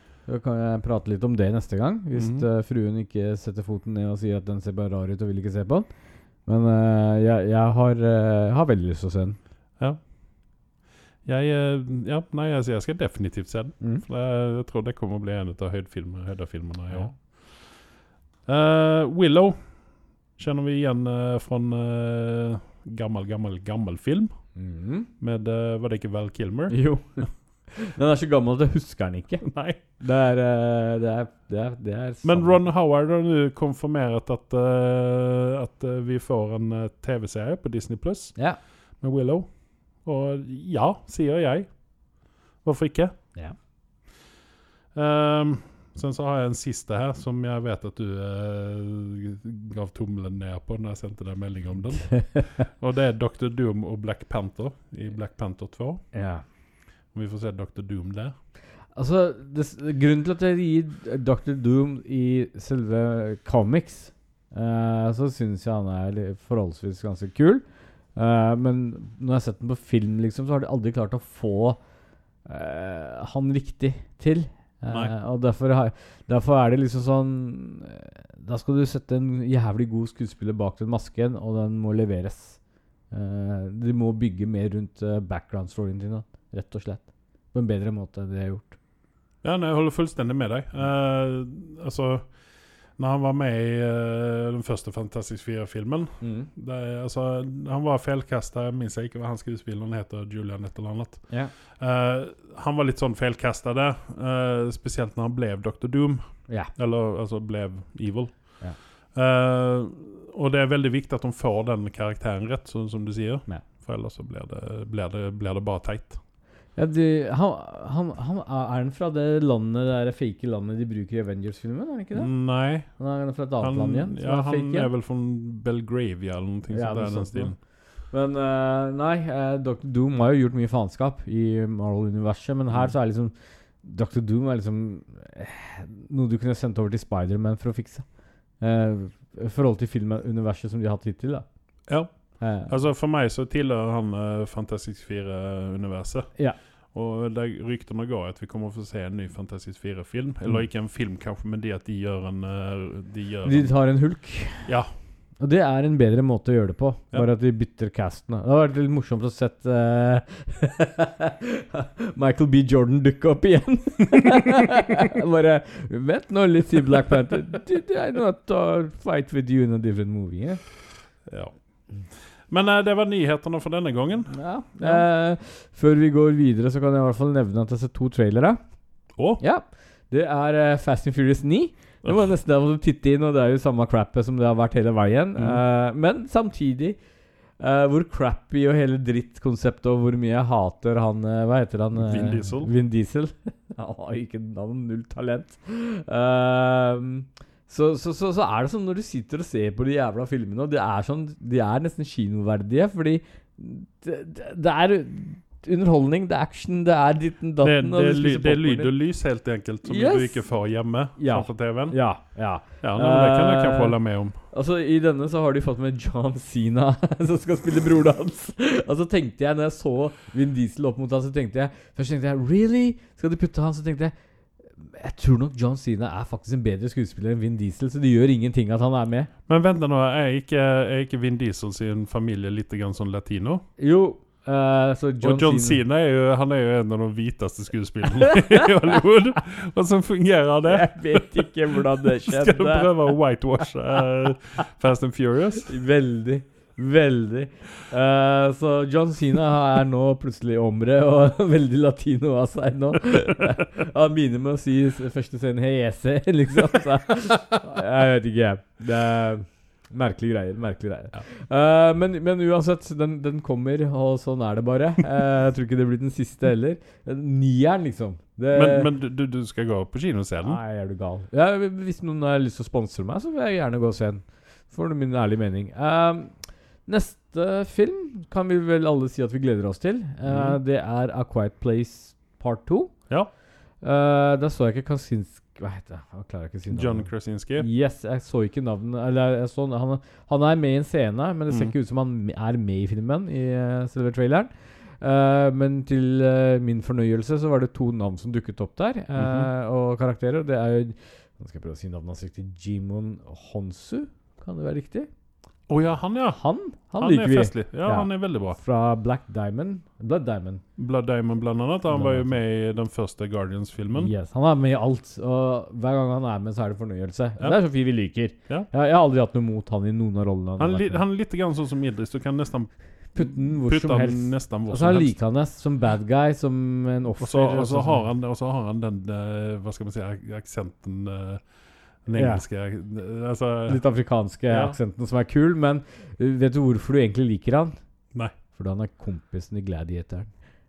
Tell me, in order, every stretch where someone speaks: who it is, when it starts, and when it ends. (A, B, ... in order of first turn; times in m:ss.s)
0:00.2-0:05.9 A
0:02.2-0:02.5 B
0:06.4-0:09.4 A
0:11.2-0:17.9 B
0:13.8-0:14.0 A
0:18.5-0:19.8 B
0:20.4-0:24.5 B
0:24.6-0:25.1 A
0:25.2-0:26.8 B
0:26.7-0:32.6 A
0:29.4-0:29.8 B
0:32.2-0:38.4 B
0:39.0-0:41.8 B
0:42.6-0:43.1 B
0:44.9-0:56.0 B
0:52.1-0:52.6 A
0:56.1-0:56.4 A
0:57.1-0:58.3 B
0:59.0-1:07.6 A
1:08.2-1:11.8 A
1:12.5-1:22.6 A
1:23.1-1:28.8 A
1:29.4-1:32.3 B
1:33.0-1:48.6 B
1:36.2-1:36.5 A
1:49.1-1:56.2 B
1:56.8-2:02.3 A
2:02.1-2:02.9 B
2:02.9-2:04.9 A
2:03.6-2:07.6 B
2:06.7-2:07.6 A
2:08.1-2:18.1 A
2:18.6-2:21.5 A
2:21.9-2:26.3 B
2:22.4-2:22.8 A
2:26.9-2:33.7 B
2:33.4-2:34.7 A
2:34.6-2:34.9 B
2:35.4-2:50.6 A
2:51.3-2:51.5 B
2:52.5-2:55.0 B
2:54.3-2:58.6 A
2:59.2-2:59.4 B
2:59.4-3:07.0 A
3:07.6-3:28.9 A
3:12.0-3:12.7 B
3:27.6-3:32.0 B
3:29.8-3:30.5 A
3:31.2-3:34.0 A
3:32.8-3:34.4 B
3:34.5-3:44.1 A
3:44.8-3:49.3 A
3:49.5-3:53.6 B
3:53.8-3:55.8 A
3:55.2-4:01.5 B
4:00.7-4:02.9 A
4:02.2-4:05.7 B
4:05.7-4:28.9 A
4:28.5-4:30.6 B
4:30.4-4:43.0 A
4:40.3-4:40.6 B
4:43.8-5:05.1 A
4:46.7-4:47.7 B
4:59.2-4:59.5 B
5:05.7-5:06.4 B
5:06.3-5:10.6 A
5:07.0-5:08.6 B
5:10.8-5:14.1 B
5:11.9-5:12.3 A
5:14.0-5:21.0 A
5:20.6-5:25.2 B
5:23.2-5:28.0 A
5:27.2-5:31.4 B
5:32.1-5:33.8 B
5:32.1-5:32.4 A
5:33.7-5:37.8 A
5:34.5-5:34.8 B
5:38.5-5:40.3 A